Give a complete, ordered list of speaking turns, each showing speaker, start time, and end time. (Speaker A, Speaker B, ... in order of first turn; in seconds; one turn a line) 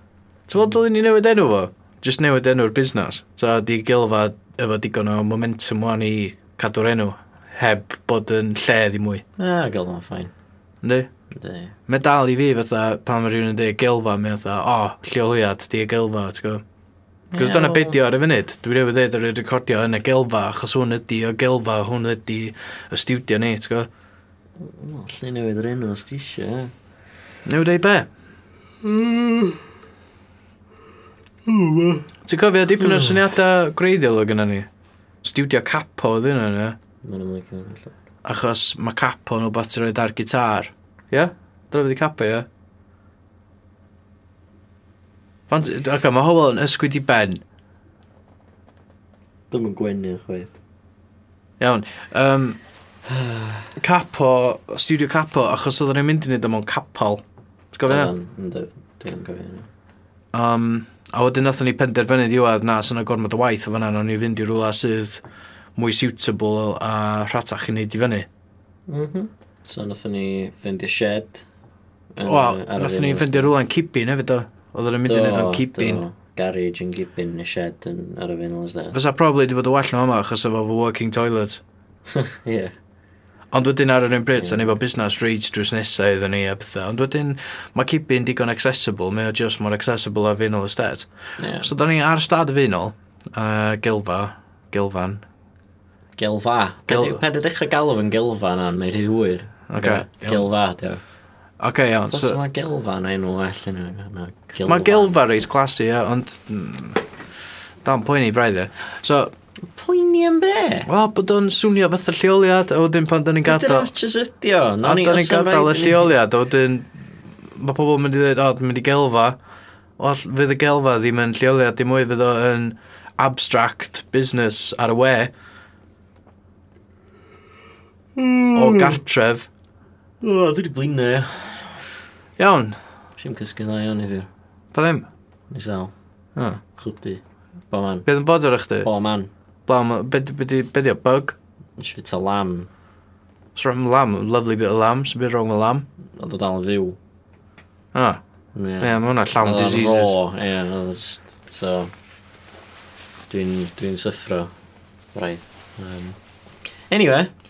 Speaker A: 0.5-9.2
Speaker B: 9.4-10.3
Speaker A: 10.8-11.1
Speaker B: 11.3-11.7
Speaker A: 11.9-16.6
Speaker B: 17.3-18.0
Speaker A: 17.4-23.9
Speaker B: 24.6-26.7
Speaker A: 27.4-28.1
Speaker B: 28.9-29.6
Speaker B: 31.5-32.0
Speaker A: 32.2-34.7
Speaker B: 32.8-33.2
Speaker A: 35.2-36.8
Speaker B: 37.0-38.0
Speaker A: 38.2-42.5
Speaker A: 45.5-47.4
Speaker B: 49.5-50.5
Speaker A: 51.6-52.6
Speaker B: 53.1-53.7
Speaker A: 53.8-58.1
Speaker B: 57.9-59.7
Speaker A: 60.3-65.2
Speaker A: 65.8-68.3
Speaker B: 68.9-71.5
Speaker B: 72.2-73.5
Speaker A: 72.2-76.0
Speaker B: 75.0-79.0
Speaker A: 78.9-81.6
Speaker B: 82.1-82.7
Speaker A: 83.5-95.2
Speaker B: 84.4-84.7
Speaker B: 91.4-91.7
Speaker B: 96.2-101.0
Speaker A: 96.9-97.2
Speaker A: 99.7-100.5
Speaker A: 101.6-102.4
Speaker B: 102.1-105.1
Speaker A: 104.6-107.0
Speaker A: 107.8-109.3
Speaker B: 109.7-110.9
Speaker A: 110.8-113.9
Speaker B: 113.4-116.1
Speaker A: 114.8-116.9
Speaker A: 117.5-119.4
Speaker A: 120.0-125.3
Speaker B: 128.2-129.0
Speaker A: 128.5-129.5
Speaker B: 130.2-131.6
Speaker A: 132.4-132.8
Speaker B: 133.2-134.3
Speaker A: 134.7-135.1
Speaker B: 135.5-135.9
Speaker A: 136.3-136.6
Speaker B: 136.8-138.1
Speaker A: 138.1-138.9
Speaker B: 138.8-139.3
Speaker A: 139.7-141.3
Speaker B: 141.8-142.7
Speaker A: 143.6-145.8
Speaker B: 146.2-147.0
Speaker A: 147.9-148.2
Speaker B: 148.5-151.9
Speaker A: 148.8-150.2
Speaker B: 153.3-154.5
Speaker B: 155.1-156.2
Speaker B: 156.9-157.3